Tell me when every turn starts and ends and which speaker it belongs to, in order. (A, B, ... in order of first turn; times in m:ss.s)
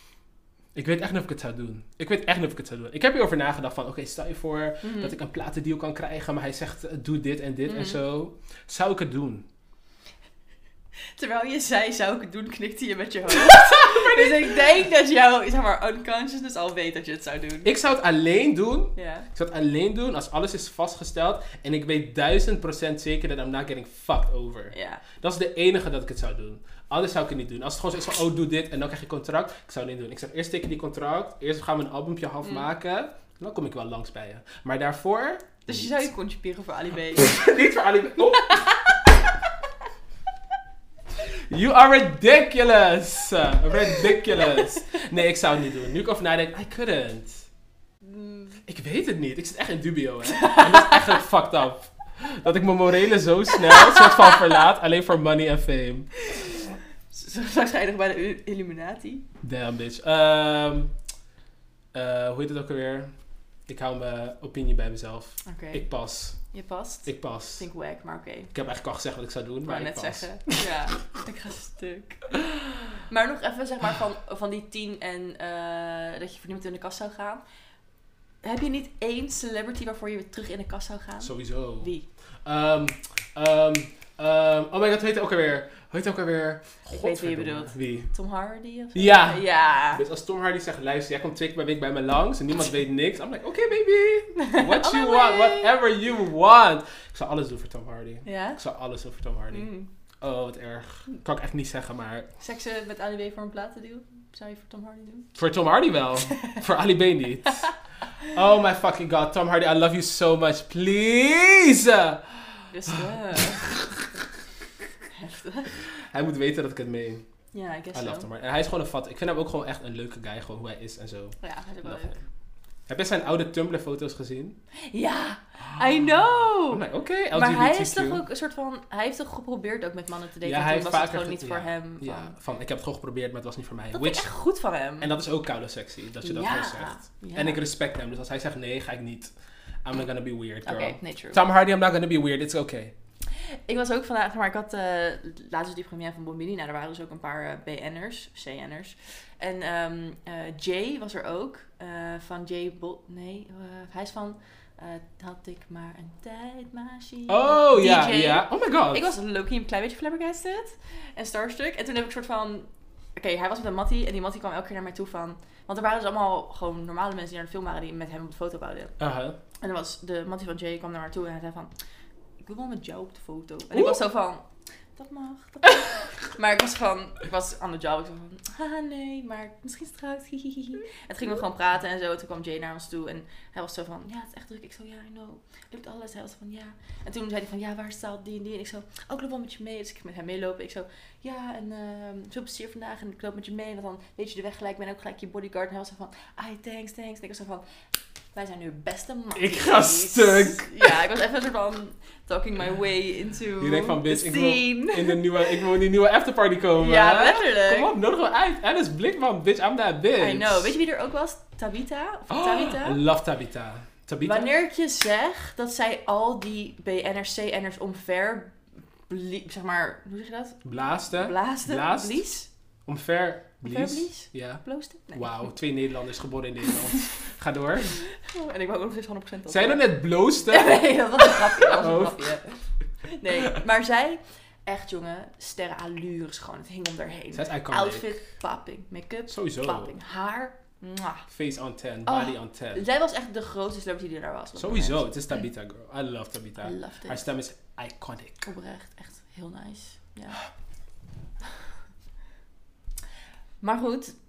0:00.8-0:09.4 A
0:04.8-0:05.2 B
0:07.7-0:08.0 B
0:11.2-0:17.7 B
0:13.4-0:14.6 A
0:17.6-0:36.1 A
0:19.0-0:19.3 B
0:24.7-0:25.0 B
0:32.4-0:32.7 B
0:35.7-0:37.4 B
0:37.1-0:38.6 A
0:38.3-0:39.1 B
0:41.5-0:47.4 A
0:48.1-0:48.6 B
0:48.7-0:56.1 A
0:50.3-0:51.2 B
0:53.5-0:54.4 B
0:56.2-0:59.2 B
0:59.4-1:00.9 A
1:01.9-1:03.1 A
1:03.7-1:06.4 A
1:05.5-1:05.9 B
1:06.5-1:08.5 B
1:07.1-1:07.7 A
1:08.5-1:10.6 A
1:09.6-1:17.4 B
1:18.4-1:22.1 B
1:21.2-1:21.9 A
1:22.4-1:28.1 A
1:27.0-1:30.0 B
1:29.0-1:42.3 A
1:34.4-1:35.8 B
1:38.2-1:38.6 B
1:39.5-1:39.9 B
1:42.4-1:45.3 B
1:45.4-1:47.7 A
1:46.3-1:46.6 B
1:48.3-1:53.0 A
1:52.7-1:53.9 B
1:55.1-1:55.7 B
1:55.9-1:57.2 A
1:57.5-1:58.3 B
1:57.9-2:02.2 A
2:01.4-2:02.2 B
2:02.9-2:04.6 A
2:04.9-2:12.3 B
2:06.6-2:08.2 A
2:10.4-2:14.3 A
2:13.9-2:15.1 B
2:15.0-2:19.3 A
2:16.2-2:17.6 B
2:19.8-2:22.9 A
2:20.6-2:21.4 B
2:23.3-2:49.0 B
2:37.3-2:39.1 A
2:49.0-2:49.4 A
2:49.6-2:51.7 B
2:52.4-2:54.4 B
2:55.0-3:17.6 B
3:18.3-3:25.7 B
3:19.4-3:21.0 A
3:23.6-3:30.8 A
3:26.8-3:27.9 B
3:30.2-3:33.0 B
3:32.3-3:34.5 A
3:34.2-3:38.6 B
3:39.1-3:42.5 B
3:40.6-3:42.2 A
3:42.9-3:48.0 A
3:43.6-3:45.5 B
3:48.2-3:49.8 B
3:49.5-3:52.4 A
3:50.4-3:52.6 B
3:53.1-4:01.3 B
3:57.3-3:58.2 A
3:59.3-4:00.0 A
4:01.3-4:02.8 A
4:02.1-4:05.0 B
4:04.6-4:08.5 A
4:06.6-4:07.2 B
4:08.4-4:10.4 B
4:13.6-4:14.2 B